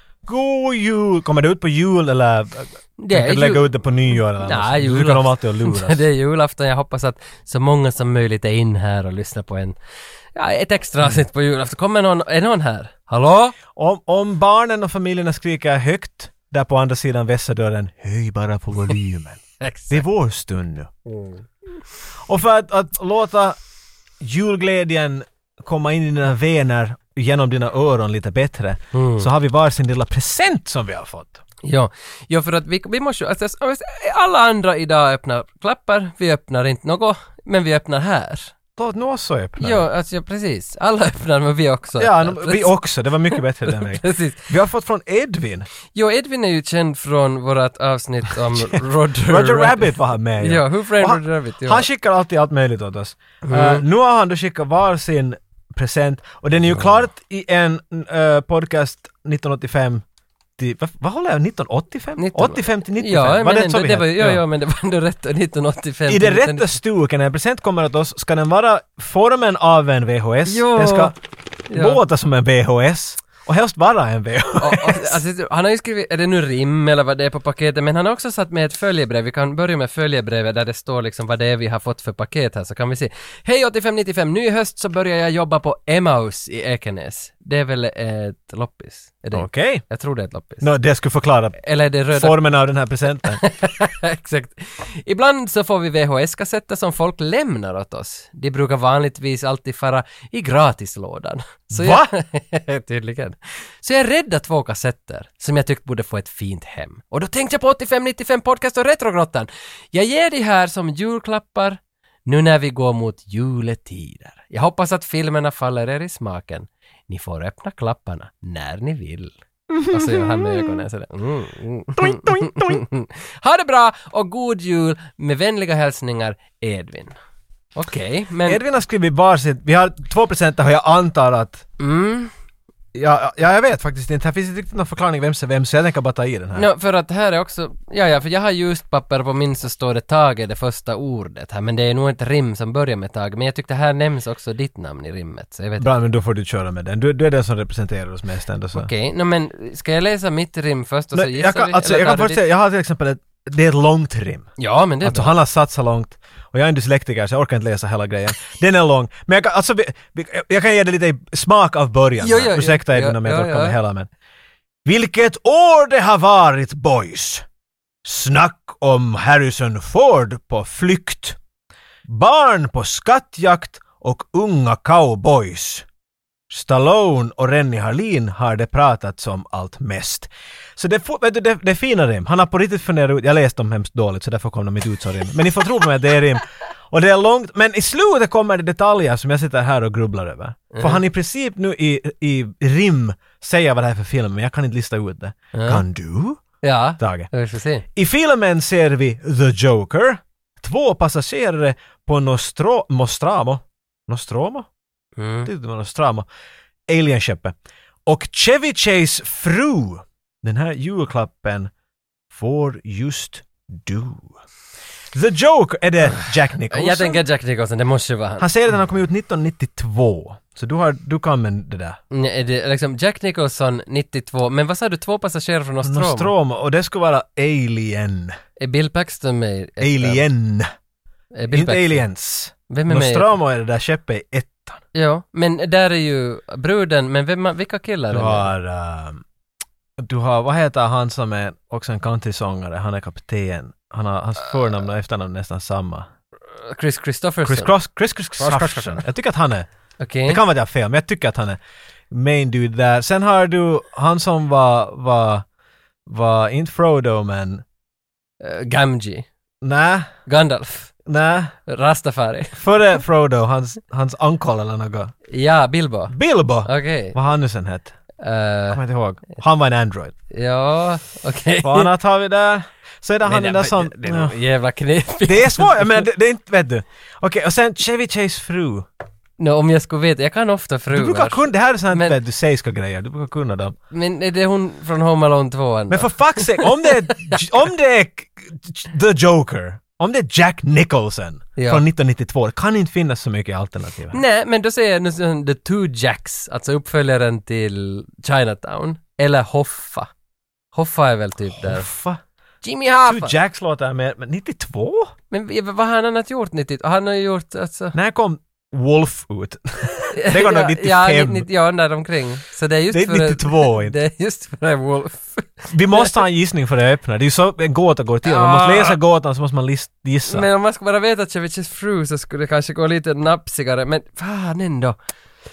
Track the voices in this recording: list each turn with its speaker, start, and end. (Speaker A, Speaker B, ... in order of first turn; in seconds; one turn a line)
Speaker A: 0.3-6.0
Speaker B: 3.0-9.8
Speaker B: 10.3-13.6
Speaker A: 13.8-20.9
Speaker B: 19.6-20.0
Speaker B: 21.1-21.4
Speaker A: 22.3-23.6
Speaker A: 24.2-31.4
Speaker B: 28.9-29.3
Speaker B: 31.6-38.5
Speaker A: 38.8-39.8
Speaker B: 39.6-42.8
Speaker A: 42.0-45.7
Speaker B: 43.3-44.5
Speaker B: 45.9-51.9
Speaker A: 49.3-60.0
Speaker B: 53.4-53.9
Speaker A: 60.6-64.4
Speaker B: 62.2-66.8
Speaker A: 66.1-71.2
Speaker B: 70.5-71.1
Speaker B: 71.7-72.0
Speaker A: 71.7-75.2
Speaker B: 74.6-90.7
Speaker A: 89.3-89.8
Speaker A: 90.6-91.6
Speaker B: 91.6-92.4
Speaker A: 92.1-93.4
Speaker B: 93.3-119.4
Speaker A: 101.7-102.1
Speaker A: 119.7-120.8
Speaker B: 119.9-127.1
Speaker A: 122.0-122.8
Speaker B: 127.8-128.6
Speaker A: 128.4-131.7
Speaker B: 131.8-132.3
Speaker A: 132.9-136.7
Speaker B: 136.6-145.9
Speaker A: 145.8-148.9
Speaker B: 148.7-152.5
Speaker A: 151.1-154.5
Speaker B: 154.6-155.3
Speaker A: 155.0-164.1
Speaker B: 162.2-163.8
Speaker A: 164.8-167.5
Speaker A: 168.0-171.4
Speaker A: 172.1-175.9
Speaker A: 176.5-196.4
Speaker B: 190.7-191.0
Speaker B: 195.5-195.8
Speaker B: 196.6-197.8
Speaker A: 197.0-197.3
Speaker A: 197.9-204.7
Speaker B: 205.2-205.5
Speaker A: 205.4-206.3
Speaker A: 206.9-211.7
Speaker A: 212.3-214.3
Speaker A: 215.1-217.2
Speaker B: 216.1-218.5
Speaker A: 218.4-222.0
Speaker B: 222.1-226.3
Speaker A: 225.8-228.3
Speaker B: 228.6-230.2
Speaker A: 229.8-230.7
Speaker B: 231.3-232.1
Speaker A: 231.5-234.8
Speaker B: 232.7-233.3
Speaker B: 234.9-238.5
Speaker A: 238.1-239.2
Speaker A: 240.0-246.1
Speaker B: 246.6-247.7
Speaker A: 247.4-249.7
Speaker B: 248.4-249.1
Speaker B: 250.0-250.4
Speaker A: 250.3-251.6
Speaker A: 252.1-255.4
Speaker A: 256.1-257.6
Speaker B: 258.4-259.2
Speaker A: 259.6-260.1
Speaker B: 260.3-260.9
Speaker A: 261.1-261.6
Speaker B: 261.7-262.6
Speaker A: 262.6-265.1
Speaker B: 265.3-266.1
Speaker A: 266.1-267.9
Speaker B: 266.6-267.2
Speaker B: 268.2-268.8
Speaker A: 268.7-270.1
Speaker B: 270.3-271.9
Speaker A: 271.6-274.4
Speaker B: 273.2-276.1
Speaker A: 275.3-278.9
Speaker B: 279.4-282.2
Speaker A: 280.9-283.8
Speaker B: 283.9-287.4
Speaker A: 285.9-294.2
Speaker B: 291.6-291.8
Speaker B: 294.1-300.1
Speaker B: 300.7-301.9
Speaker A: 301.6-302.2
Speaker B: 302.6-303.3
Speaker A: 303.0-305.1
Speaker B: 305.3-308.0
Speaker A: 307.9-311.5
Speaker B: 310.1-316.2
Speaker A: 312.9-314.0
Speaker A: 315.7-320.5
Speaker B: 318.2-319.0
Speaker B: 320.3-325.0